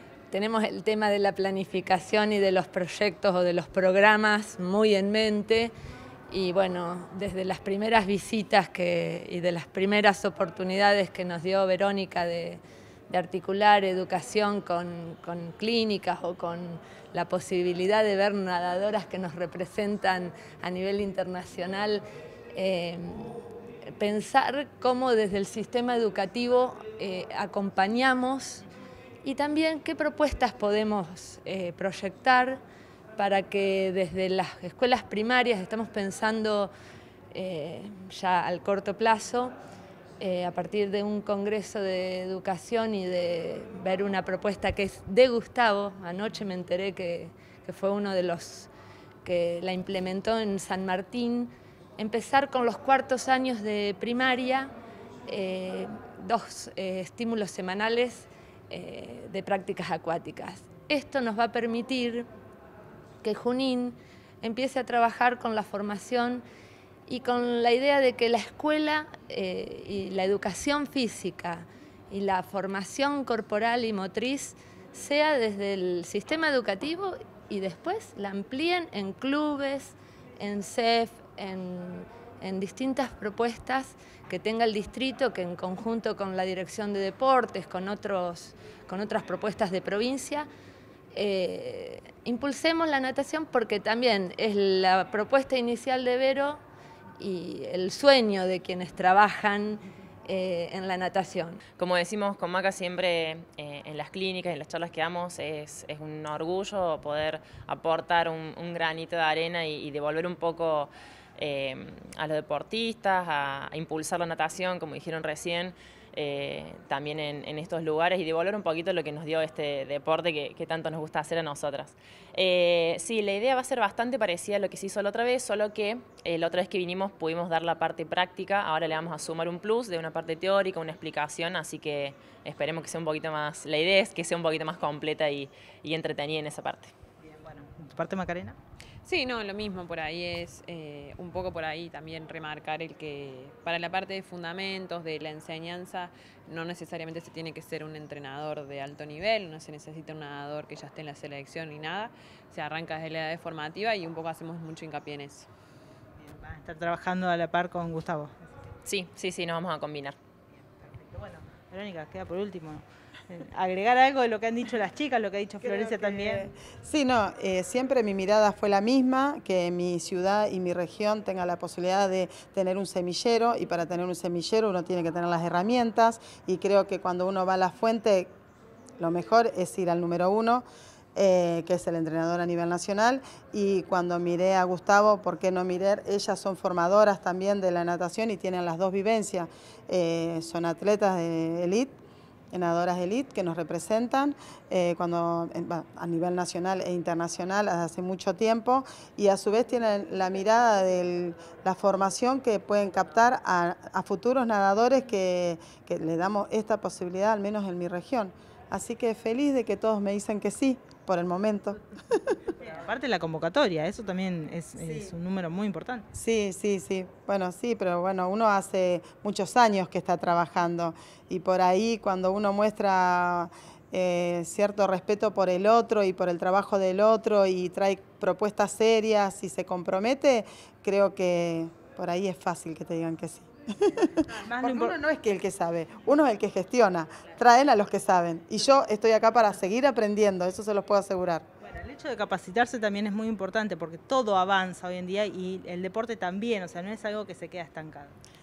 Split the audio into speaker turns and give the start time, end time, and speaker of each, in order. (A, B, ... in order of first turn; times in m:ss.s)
0:00.3-0:05.7 A
0:06.3-0:22.0 A
0:22.5-0:23.4 A
0:24.0-0:28.6 A
0:29.2-0:32.6 A
0:33.2-0:36.7 A
0:37.3-0:39.5 A
0:40.2-0:48.7 A
0:49.2-0:54.7 A
0:55.3-1:02.3 A
1:03.2-1:06.4 A
1:07.1-1:30.5 A
1:31.1-1:36.6 A
1:37.2-1:41.6 A
1:41.8-2:16.9 B
2:17.2-2:18.6 C
2:19.0-2:35.5 D
2:36.2-2:38.5 C
2:38.8-2:40.2 B
2:40.8-2:46.4 C
2:45.6-2:58.3 E
2:59.0-3:11.9 E
3:12.5-3:32.4 E
3:32.6-3:36.0 C
3:36.1-4:01.5 E
3:54.4-3:54.9 C
4:01.6-4:08.2 C